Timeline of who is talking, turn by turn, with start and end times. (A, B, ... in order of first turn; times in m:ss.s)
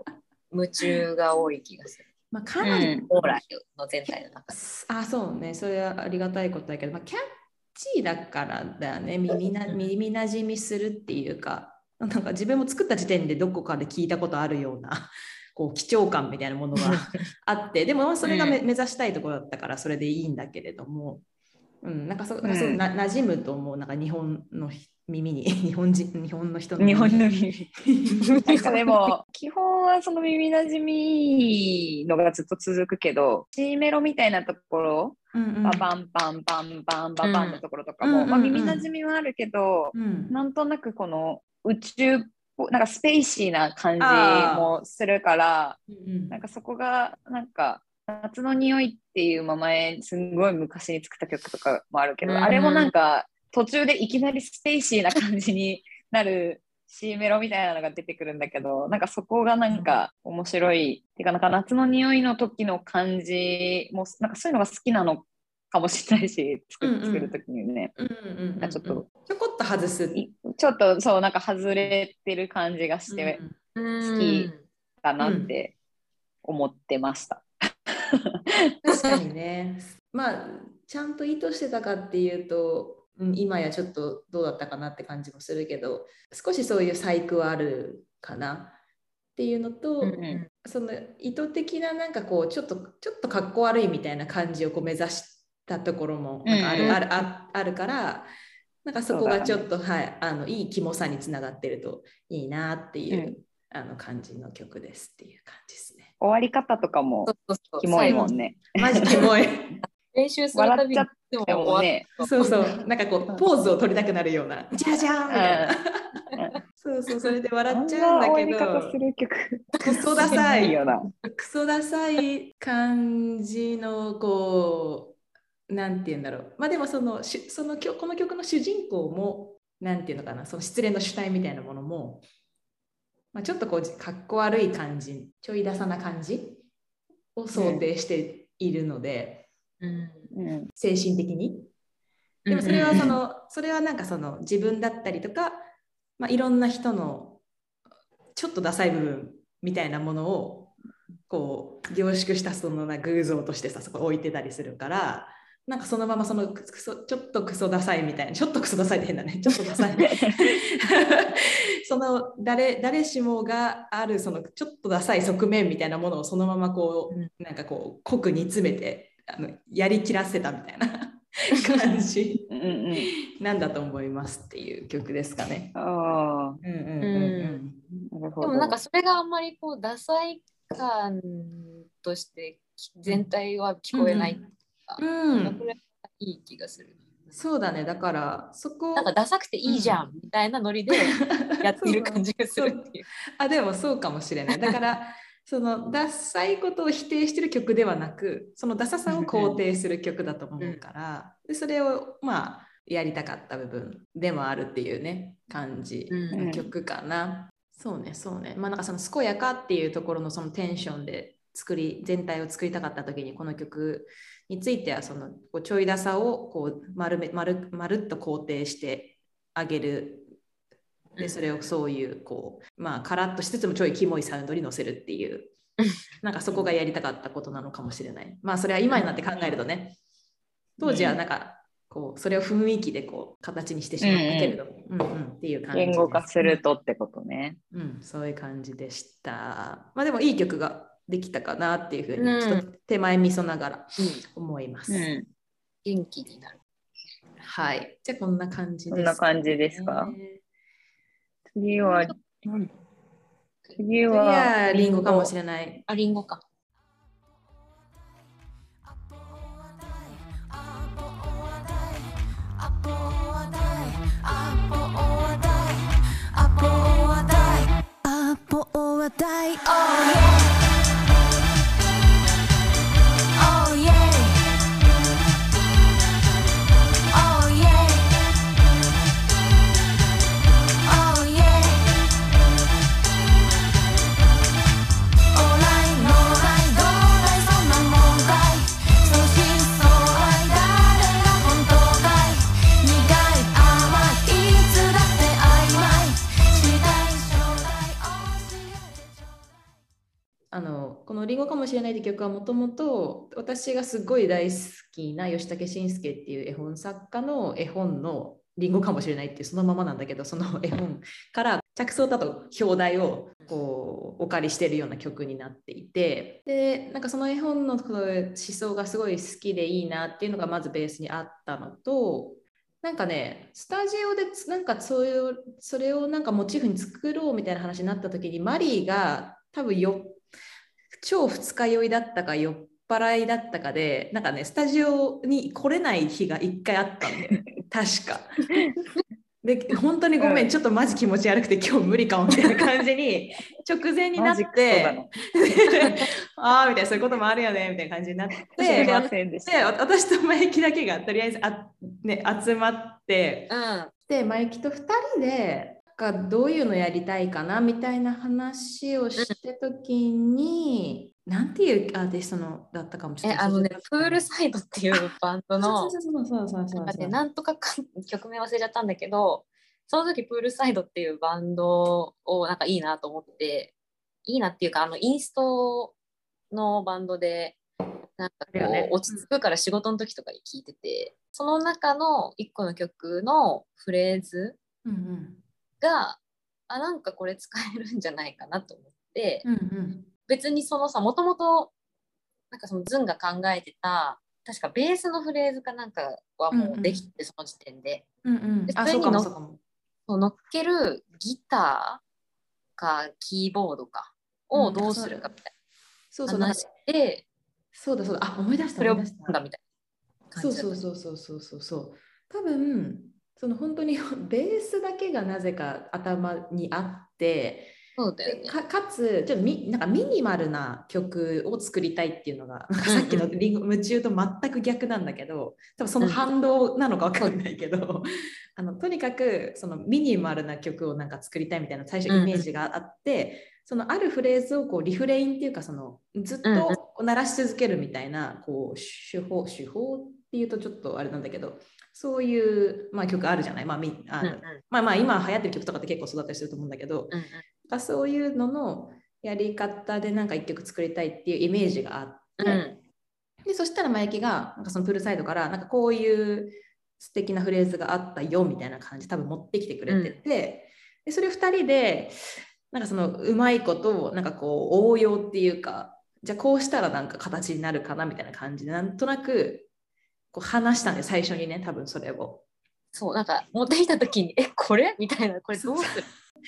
0:00.5-0:02.1 A
0:02.3-0:03.3 B
0:02.6-0:03.1 C
0:02.8-0:04.6 A
0:04.5-0:07.2 B
0:07.8-0:21.2 B
0:18.2-0:18.6 C
0:21.8-0:27.2 B
0:22.4-0:22.8 C
0:26.8-0:27.7 C
0:27.9-0:28.7 B
0:28.4-1:07.9 C
0:35.3-0:35.9 B
0:37.2-0:37.6 A
0:38.0-0:38.9 B
0:39.9-0:40.4 B
0:44.0-0:44.7 B
0:45.9-0:46.4 B
0:52.2-0:52.9 A
1:06.8-1:07.4 B
1:08.0-1:10.2 B
1:08.6-1:09.1 C
1:10.2-1:13.4 C
1:13.1-1:13.6 B
1:13.8-1:14.6 A
1:14.0-1:14.5 C
1:15.0-1:15.7 C
1:15.2-1:15.5 B
1:16.4-1:17.5 C
1:18.1-1:18.7 C
1:18.8-1:28.8 B
1:29.4-1:38.3 B
1:30.1-1:30.4 C
1:30.2-1:30.5 A
1:36.4-1:37.2 C
1:38.8-1:46.1 B
1:39.1-1:39.7 C
1:43.1-1:43.4 C
1:46.2-1:49.3 C
1:47.3-1:48.3 A
1:48.0-1:49.8 B
1:50.1-1:52.6 A
1:50.5-1:52.2 C
1:52.2-1:56.0 B
1:55.3-1:55.8 C
1:56.8-1:59.0 B
1:57.7-2:01.1 C
1:59.8-2:00.7 A
1:59.8-2:05.2 B
2:05.7-2:12.2 B
2:13.3-2:16.6 B
2:17.4-2:19.5 B
2:19.8-2:20.3 A
2:20.3-2:20.7 C
2:20.8-2:21.7 B
2:22.5-2:23.2 A
2:22.5-2:25.7 B
2:22.6-2:23.2 C
2:26.2-2:27.4 B
2:28.4-2:30.7 B
2:31.3-2:55.8 B
2:40.0-2:40.4 C
2:52.5-2:53.1 C
2:55.8-2:56.6 C
2:56.6-2:57.8 B
2:57.0-2:57.6 A
2:57.9-2:58.8 C
2:58.4-3:07.3 A
3:03.9-3:04.5 B
3:05.0-3:05.6 B
3:07.3-3:09.1 B
3:09.0-3:13.1 A
3:09.6-3:10.1 B
3:10.9-3:12.9 B
3:13.4-3:40.3 B
3:26.1-3:26.4 A
3:26.3-3:26.7 C
3:41.2-3:45.5 B
3:46.2-3:50.0 B
3:48.9-3:49.6 A
3:50.8-3:56.6 B
3:50.8-3:51.2 A
3:54.0-3:54.6 C
3:55.7-3:57.6 C
3:57.7-4:05.1 B
4:02.2-4:02.7 A
4:04.9-4:05.3 C
4:05.8-4:06.6 A
4:07.4-4:10.4 B
4:08.9-4:10.2 C
4:11.5-4:12.2 C
4:11.9-4:12.7 A
4:13.8-4:15.3 C
4:14.1-4:15.9 B
4:15.9-4:16.4 A
4:19.0-4:30.6 D
4:33.4-4:34.6 D
4:37.1-4:38.2 D
4:40.8-4:41.9 D
4:45.3-4:59.5 D
5:00.5-5:30.2 B
5:31.0-5:38.5 B
5:39.4-5:53.5 B
5:40.2-5:40.5 C
5:44.2-5:45.1 C
5:48.5-5:49.7 C
5:48.7-5:49.1 A
5:53.5-5:53.9 A
5:54.1-6:04.3 B
6:03.2-6:05.9 A
6:04.9-6:07.2 B
6:06.8-6:13.7 A
6:14.2-6:16.0 A
6:16.5-6:17.6 A
6:18.2-6:24.6 A
6:18.5-6:19.2 B
6:24.8-6:25.4 B
6:25.8-6:29.5 A
6:29.4-6:30.1 B
6:30.3-6:31.7 A
6:32.5-6:38.0 A
6:36.5-6:37.1 B
6:38.2-6:39.6 B
6:38.7-6:39.3 A
6:40.1-6:42.0 A
6:42.8-6:45.5 A
6:44.5-6:45.3 B
6:46.1-6:46.7 B
6:46.3-6:47.3 A
6:47.7-6:49.4 B
6:48.8-6:49.6 A
6:50.3-6:50.9 A
6:50.4-7:32.6 B
6:58.0-6:58.6 A
7:02.9-7:03.3 A
7:12.1-7:12.5 A
7:16.4-7:16.8 A
7:24.2-7:24.6 A
7:27.1-7:27.4 A
7:32.4-7:32.8 A
7:33.4-7:49.7 B
7:39.9-7:40.2 A
7:50.3-7:52.4 B
7:52.9-7:56.1 A
7:55.6-7:56.0 B